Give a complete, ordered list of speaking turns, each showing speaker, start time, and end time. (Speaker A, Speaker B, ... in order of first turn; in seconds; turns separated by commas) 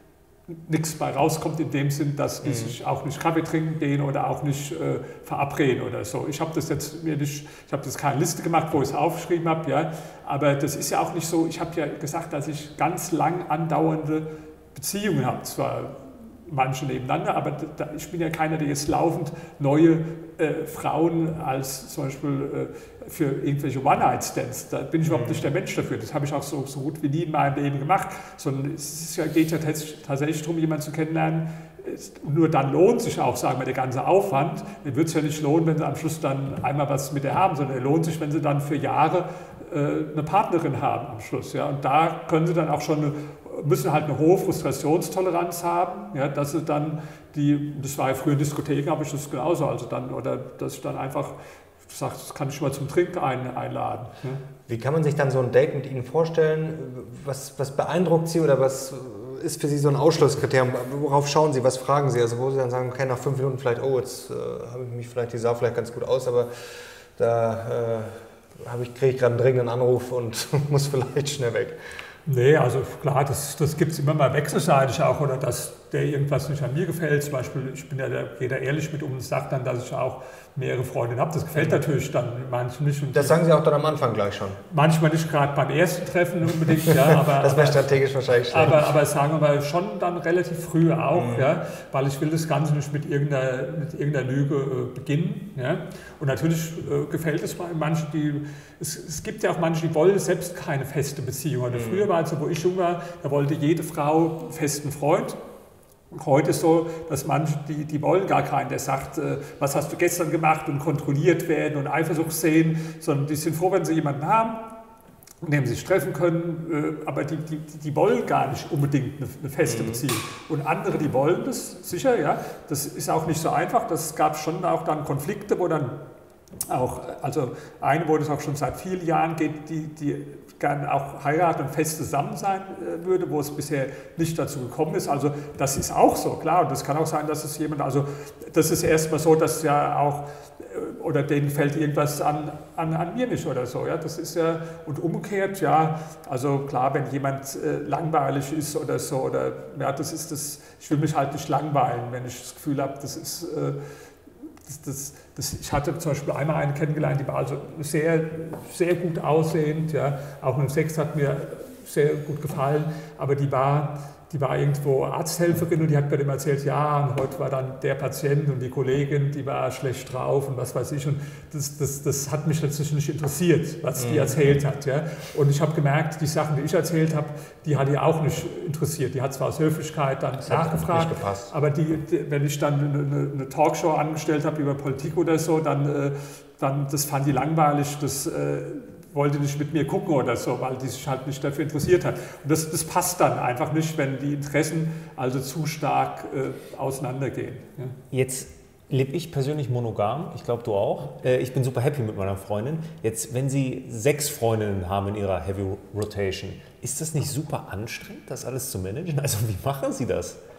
Speaker A: 0.5-51.4, Speaker B: 2.4-2.8, Speaker B: 25.1-25.4, Speaker A: 51.9-54.4, Speaker B: 54.7-71.8, Speaker A: 72.3-83.4, Speaker B: 81.6-81.8, Speaker B: 83.1-84.6, Speaker A: 84.7-87.9, Speaker B: 86.9-88.9, Speaker A: 88.5-105.4, Speaker B: 91.1-91.5, Speaker B: 101.7-102.1, Speaker A: 106.1-114.6, Speaker A: 115.4-126.0, Speaker B: 119.7-120.0, Speaker A: 126.7-153.8, Speaker A: 154.7-197.9, Speaker B: 174.0-174.4, Speaker B: 180.4-181.5, Speaker C: 198.1-210.4